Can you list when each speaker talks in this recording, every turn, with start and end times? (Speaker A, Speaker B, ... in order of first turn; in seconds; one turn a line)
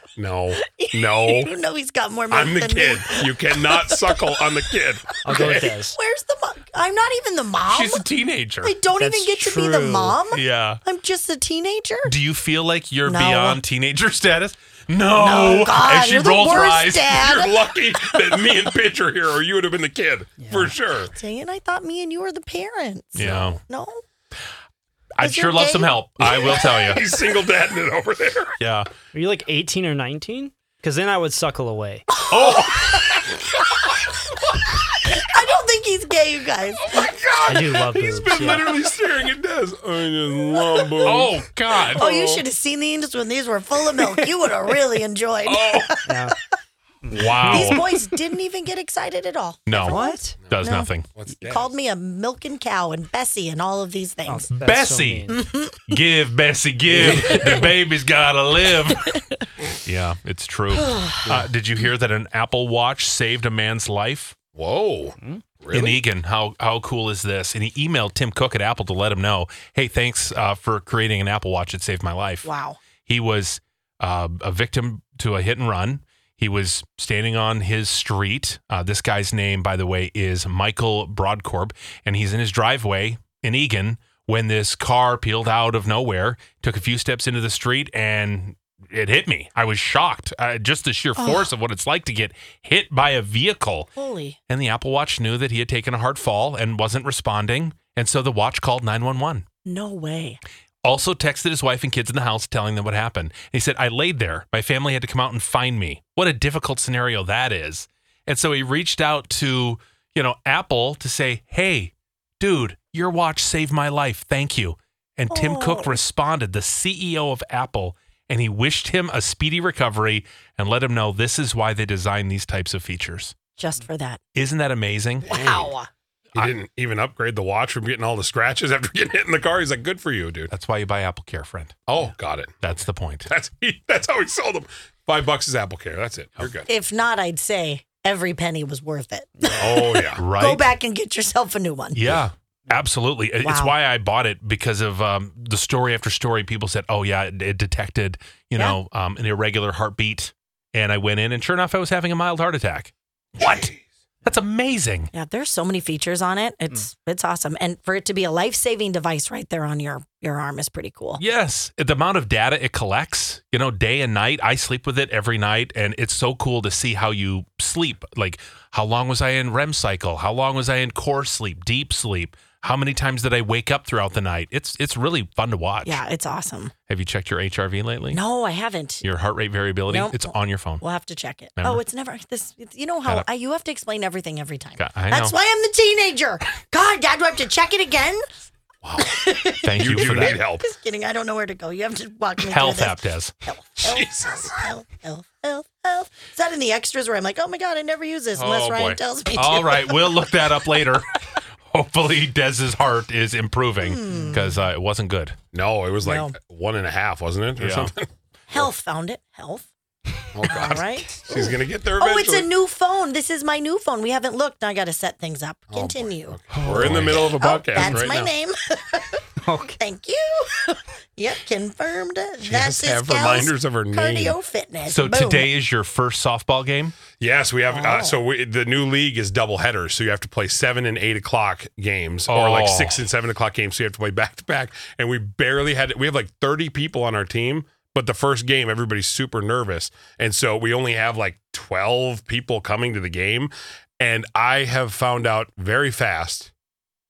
Speaker A: 0.2-1.5
Speaker B: 0.6-4.6
Speaker A: 2.3-5.7
Speaker C: 5.2-6.0
Speaker B: 5.3-8.0
Speaker D: 7.7-8.7
Speaker B: 8.6-12.1
Speaker C: 9.0-10.2
Speaker D: 10.3-10.8
Speaker D: 12.0-17.3
Speaker B: 13.0-13.6
Speaker B: 15.1-18.7
Speaker A: 17.1-21.1
Speaker C: 20.4-20.7
Speaker B: 21.1-24.0
Speaker D: 23.1-23.6
Speaker A: 23.2-23.5
Speaker D: 25.2-27.0
Speaker B: 25.2-26.0
Speaker A: 26.2-28.6
Speaker D: 28.6-28.9
Speaker C: 29.1-32.0
Speaker B: 32.1-37.1
Speaker D: 32.3-32.9
Speaker A: 36.9-41.4
Speaker C: 37.5-38.7
Speaker B: 40.5-41.3
Speaker D: 41.0-42.1
Speaker A: 41.9-42.4
Speaker B: 41.9-46.3
Speaker A: 45.5-45.9
Speaker C: 46.0-46.3
Speaker C: 47.0-47.8
Speaker D: 47.1-47.9
Speaker B: 47.4-54.5
Speaker D: 49.7-51.1
Speaker C: 49.8-50.4
Speaker A: 50.4-51.7
Speaker C: 54.2-55.4
Speaker D: 54.5-59.2
Speaker B: 55.3-55.8
Speaker A: 57.0-57.5
Speaker D: 59.8-64.4
Speaker B: 60.8-61.2
Speaker A: 64.5-66.0
Speaker D: 65.7-72.5
Speaker B: 72.4-72.8
Speaker D: 73.0-93.9
Speaker B: 91.2-91.5
Speaker B: 94.0-94.4
Speaker D: 94.5-99.5
Speaker B: 99.6-100.4
Speaker D: 100.8-123.3
Speaker B: 115.3-116.0
Speaker B: 123.6-124.2
Speaker D: 124.3-125.2
Speaker A: 125.2-125.7
Speaker B: 125.3-125.9
Speaker A: 126.3-130.5
Speaker D: 130.5-131.8
Speaker A: 131.9-132.7
Speaker D: 132.6-133.3
Speaker A: 133.3-136.7
Speaker B: 136.7-142.1
Speaker A: 139.6-140.2
Speaker D: 140.2-140.7
Speaker D: 141.9-153.7
Speaker B: 143.4-143.7
Speaker A: 153.4-153.9
Speaker D: 154.2-155.1
Speaker B: 155.1-161.2
Speaker D: 161.2-176.0
Speaker B: 175.8-176.7
Speaker D: 176.9-178.2
Speaker B: 178.1-179.0
Speaker D: 179.0-180.8
Speaker B: 179.9-188.2
Speaker D: 181.6-181.8
Speaker D: 184.8-185.3
Speaker A: 188.8-190.7
Speaker B: 189.0-200.1
Speaker D: 189.6-190.4
Speaker D: 192.4-193.3
Speaker A: 193.8-194.5
Speaker D: 198.3-201.1
Speaker D: 201.7-205.4
Speaker B: 203.8-204.6
Speaker A: 205.5-208.7
Speaker B: 206.0-206.3
Speaker D: 207.6-207.9
Speaker B: 208.5-209.7
Speaker A: 210.3-212.5
Speaker B: 210.4-219.2
Speaker A: 215.7-218.3
Speaker D: 216.5-218.1
Speaker C: 219.4-219.8
Speaker B: 219.8-225.5
Speaker A: 222.4-224.4
Speaker D: 224.8-226.9
Speaker A: 227.2-246.5
Speaker B: 227.7-228.2
Speaker D: 232.3-233.0